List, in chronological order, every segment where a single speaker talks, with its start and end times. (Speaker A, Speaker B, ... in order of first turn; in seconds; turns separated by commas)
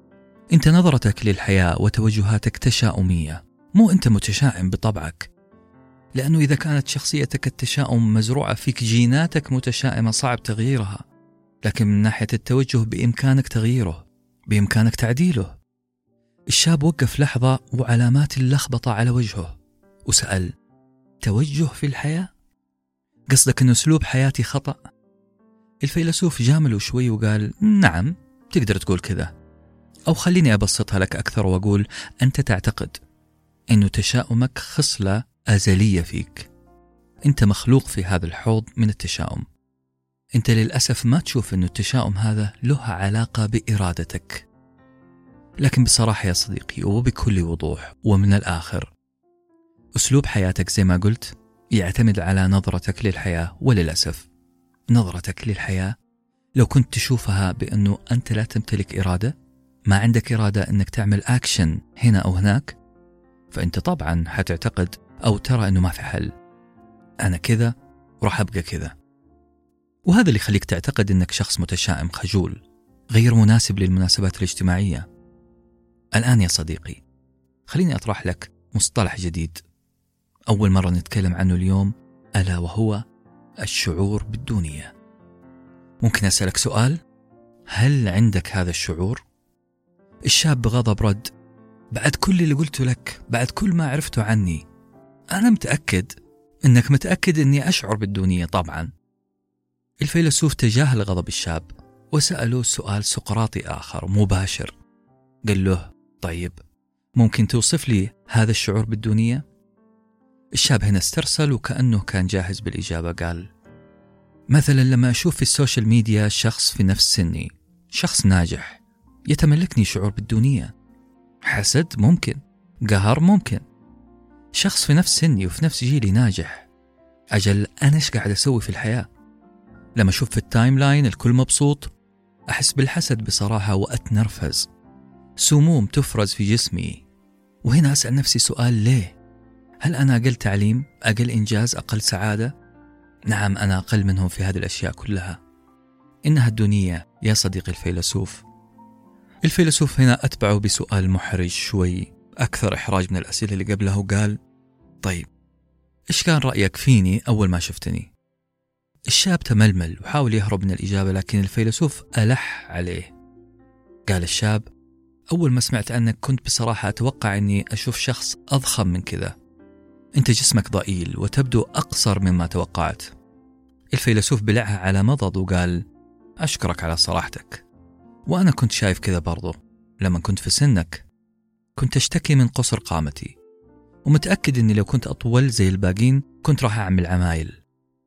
Speaker A: 0.5-5.3, Speaker A: 6.2-11.1, Speaker A: 11.6-15.6, Speaker A: 16.5-20.5, Speaker A: 21.2-22.3, Speaker A: 23.3-24.8, Speaker A: 25.8-29.3, Speaker A: 30.1-33.0, Speaker A: 33.7-36.5, Speaker A: 37.2-39.5, Speaker A: 40.4-44.5, Speaker A: 45.6-48.9, Speaker A: 50.0-54.3, Speaker A: 54.9-56.0, Speaker A: 56.6-59.4, Speaker A: 59.9-62.8, Speaker A: 63.5-66.3, Speaker A: 67.2-69.0, Speaker A: 70.1-75.1, Speaker A: 76.1-77.0, Speaker A: 77.7-79.6, Speaker A: 80.5-83.0, Speaker A: 83.6-84.9, Speaker A: 86.0-87.0, Speaker A: 87.7-89.2, Speaker A: 90.3-91.3, Speaker A: 91.9-94.6, Speaker A: 95.3-98.9, Speaker A: 100.0-104.8, Speaker A: 105.5-106.6, Speaker A: 107.2-109.5, Speaker A: 110.5-113.5, Speaker A: 114.5-120.7, Speaker A: 121.4-123.6, Speaker A: 124.5-126.7, Speaker A: 127.3-129.1, Speaker A: 130.0-131.9, Speaker A: 132.5-134.7, Speaker A: 135.4-137.0, Speaker A: 137.6-139.2, Speaker A: 139.8-142.5, Speaker A: 143.3-145.4, Speaker A: 146.2-148.4, Speaker A: 149.4-154.4, Speaker A: 155.0-155.3, Speaker A: 156.1-158.1, Speaker A: 159.1-163.1, Speaker A: 164.1-164.7, Speaker A: 165.3-169.3, Speaker A: 170.2-173.1, Speaker A: 173.9-175.8, Speaker A: 176.4-177.7, Speaker A: 178.3-181.1, Speaker A: 181.8-183.4, Speaker A: 184.1-187.6